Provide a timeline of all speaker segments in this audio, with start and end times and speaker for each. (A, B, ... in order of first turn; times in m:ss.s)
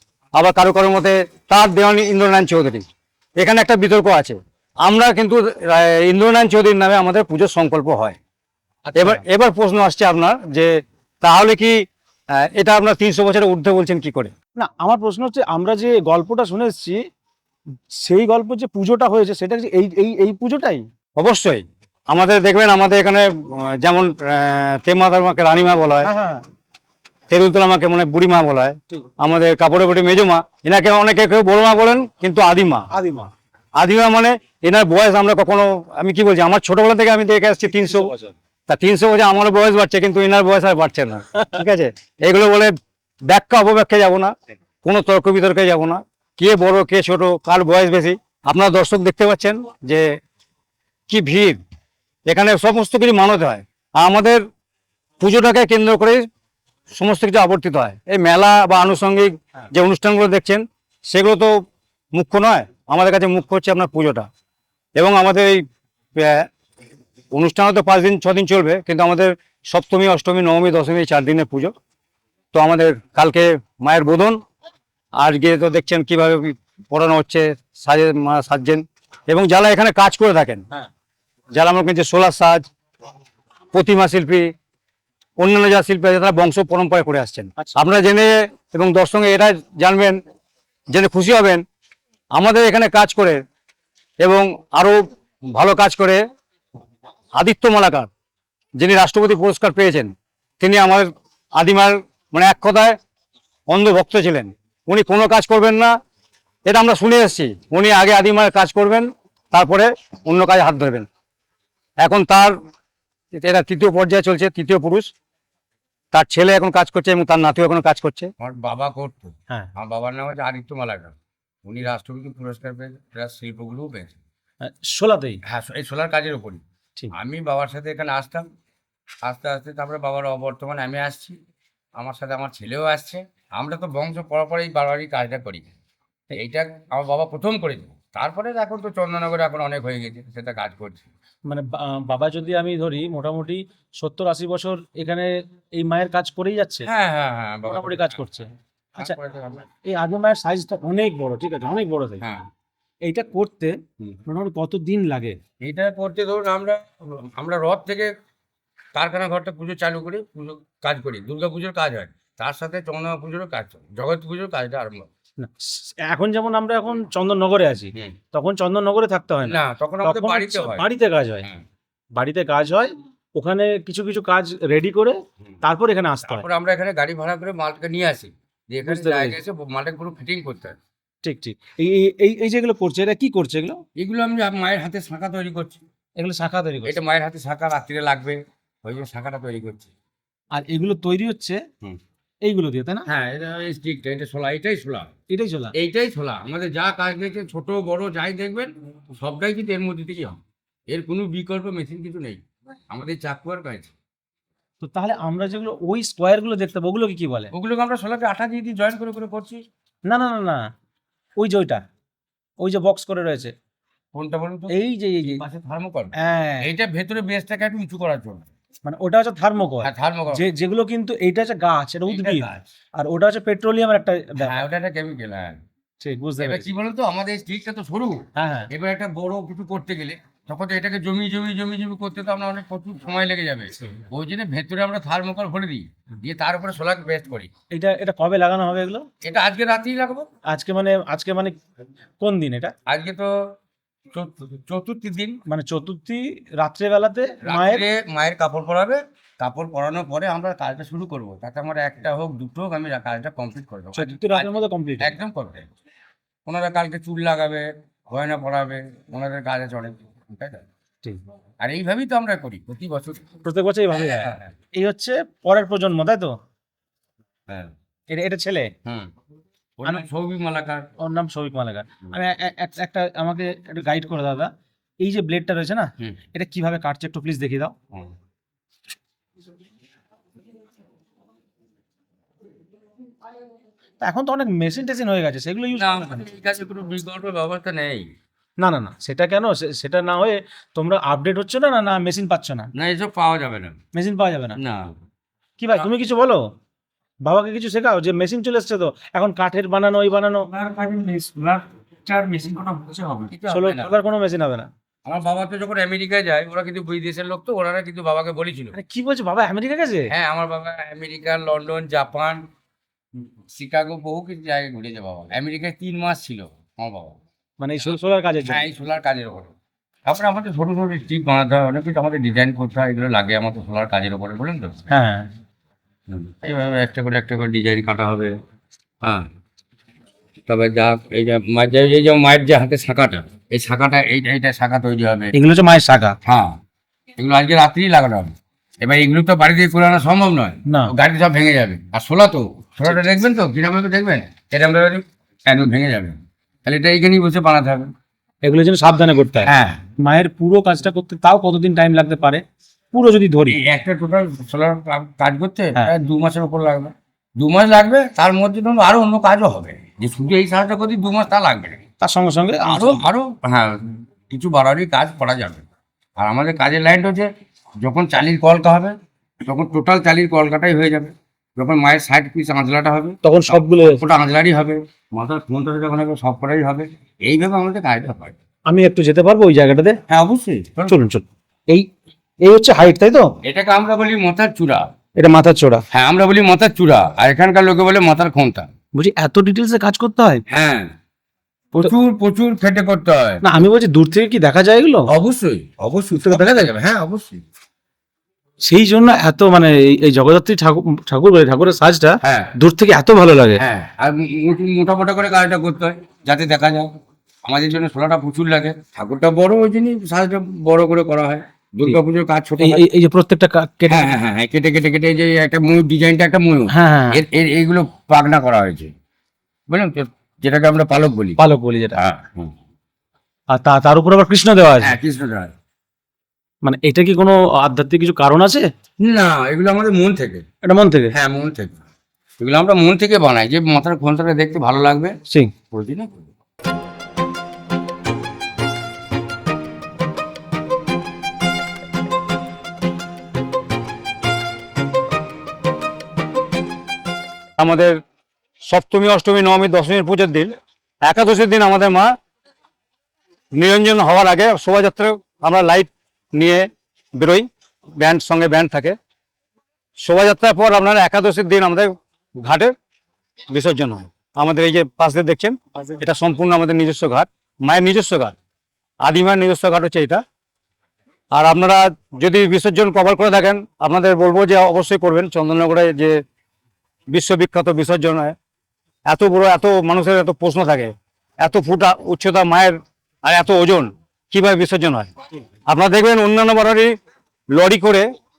0:00.3-0:02.8 A
0:03.4-0:08.2 A
0:08.8-0:09.2 B
0:09.0-0:14.3 A
0:14.6-0:17.0 B
0:17.9-0:20.8 B
0:21.2-0:26.1 A
0:26.0-0:26.4 B
0:27.3-0:32.9 A
0:32.9-0:33.3 B
0:33.8-0:38.1 A
0:37.7-0:38.3 B
0:38.7-0:42.8 A
0:43.3-0:50.2 A
0:51.1-0:51.6 A
0:52.3-0:54.4 A
0:55.2-0:56.2 A
0:56.9-1:01.6 A
1:02.1-1:04.3 A
1:05.0-1:05.6 A
1:06.2-1:06.5 A
1:07.3-1:11.7 A
1:12.5-1:14.4 A
1:15.2-1:20.6 A
1:21.5-1:22.7 A
1:23.7-1:24.5 A
1:25.4-1:30.2 A
1:27.6-1:27.9 B
1:30.9-1:31.6 A
1:32.4-1:33.4 A
1:34.2-1:36.2 A
1:37.4-1:38.1 A
1:38.8-1:43.0 A
1:43.7-1:45.9 A
1:46.7-1:51.1 A
1:52.0-1:52.6 A
1:53.3-1:55.1 A
1:56.1-1:58.3 A
1:58.4-2:04.2 C
2:04.6-2:05.4 B
2:05.4-2:06.6 C
2:07.1-2:08.4 C
2:09.2-2:11.4 C
2:12.0-2:15.7 C
2:16.3-2:21.1 C
2:21.4-2:26.9 B
2:26.9-2:28.2 C
2:27.7-2:29.1 B
2:29.0-2:29.7 C
2:29.8-2:32.2 B
2:32.2-2:32.5 C
2:33.0-2:35.4 B
2:35.6-2:38.1 C
2:38.9-2:45.1 C
2:45.4-2:51.5 B
2:49.4-2:50.8 C
2:52.1-2:56.4 B
2:56.3-3:00.8 C
2:58.8-2:59.4 B
3:01.2-3:03.8 B
3:04.0-3:05.8 C
3:06.2-3:07.0 B
3:06.8-3:09.9 C
3:10.5-3:11.6 B
3:12.4-3:13.1 B
3:13.1-3:15.1 C
3:15.3-3:15.7 B
3:15.7-3:23.9 C
3:24.8-3:27.5 B
3:27.5-3:29.6 C
3:30.0-3:30.6 B
3:31.4-3:31.8 B
3:32.6-3:33.5 B
3:34.1-3:38.5 C
3:34.7-3:35.4 B
3:36.2-3:36.7 B
3:38.8-3:44.6 B
3:39.8-3:40.4 C
3:42.1-3:42.6 C
3:44.4-3:45.6 C
3:46.0-3:46.7 B
3:46.4-3:57.5 C
3:48.4-3:48.7 B
3:57.7-3:59.1 B
3:59.2-4:00.3 C
4:00.5-4:01.6 B
4:02.2-4:02.7 B
4:02.9-4:03.3 C
4:04.1-4:05.4 C
4:05.4-4:07.8 B
4:07.4-4:15.7 C
4:13.9-4:15.1 B
4:16.4-4:20.6 C
4:21.6-4:23.3 C
4:23.4-4:26.4 B
4:24.1-4:24.4 C
4:28.1-4:28.7 B
4:28.8-4:29.1 C
4:29.8-4:30.9 C
4:31.0-4:37.8 B
4:44.0-4:46.2 B
4:45.8-4:48.1 C
4:48.6-4:52.7 B
4:52.7-4:53.8 C
4:53.9-4:54.6 B
4:54.6-4:54.9 C
4:55.6-4:56.5 B
4:57.2-5:00.5 B
5:00.4-5:03.9 C
5:03.5-5:04.7 B
5:05.0-5:08.8 C
5:08.7-5:10.1 B
5:10.1-5:12.5 C
5:13.5-5:17.2 C
5:17.6-5:18.6 B
5:17.8-5:19.5 C
5:20.1-5:24.8 C
5:24.9-5:25.3 B
5:26.1-5:28.4 C
5:29.0-5:29.3 C
5:30.5-5:35.3 C
5:35.3-5:36.2 B
5:36.2-5:36.6 C
5:37.2-5:47.9 C
5:40.7-5:40.9 B
5:48.4-5:53.6 B
5:49.4-5:49.8 C
5:53.5-6:01.8 C
6:02.0-6:03.0 B
6:02.6-6:05.6 C
6:06.2-6:07.3 C
6:07.8-6:18.3 C
6:13.2-6:14.0 B
6:18.7-6:20.0 B
6:20.1-6:21.0 C
6:20.9-6:21.9 B
6:22.4-6:23.3 B
6:23.4-6:24.9 C
6:25.2-6:25.8 B
6:25.9-6:28.7 C
6:28.9-6:30.4 B
6:30.5-6:30.9 C
6:31.7-6:33.4 C
6:33.4-6:35.1 B
6:35.1-6:37.4 C
6:36.2-6:36.7 B
6:38.6-6:43.6 B
6:42.2-6:42.5 C
6:43.6-6:46.9 C
6:47.4-6:52.8 C
6:52.6-6:54.1 B
6:53.9-6:58.9 C
6:56.7-6:57.2 B
6:59.7-7:01.4 C
7:01.4-7:02.0 B
7:02.0-7:02.5 C
7:03.5-7:05.0 B
7:04.8-7:05.5 C
7:06.6-7:08.7 B
7:09.0-7:10.4 C
7:10.6-7:11.2 B
7:11.1-7:11.8 C
7:12.4-7:15.2 C
7:15.7-7:16.3 C
7:27.6-7:28.0 A
7:28.6-7:32.1 A
7:33.5-7:37.5 A
7:38.0-7:39.0 A
7:40.0-7:42.7 A
7:43.5-7:48.3 A
7:49.0-7:50.2 A
7:51.3-7:56.2 A
7:57.1-7:58.3 A
7:59.1-8:05.1 A
8:05.7-8:06.9 A
8:07.5-8:08.1 A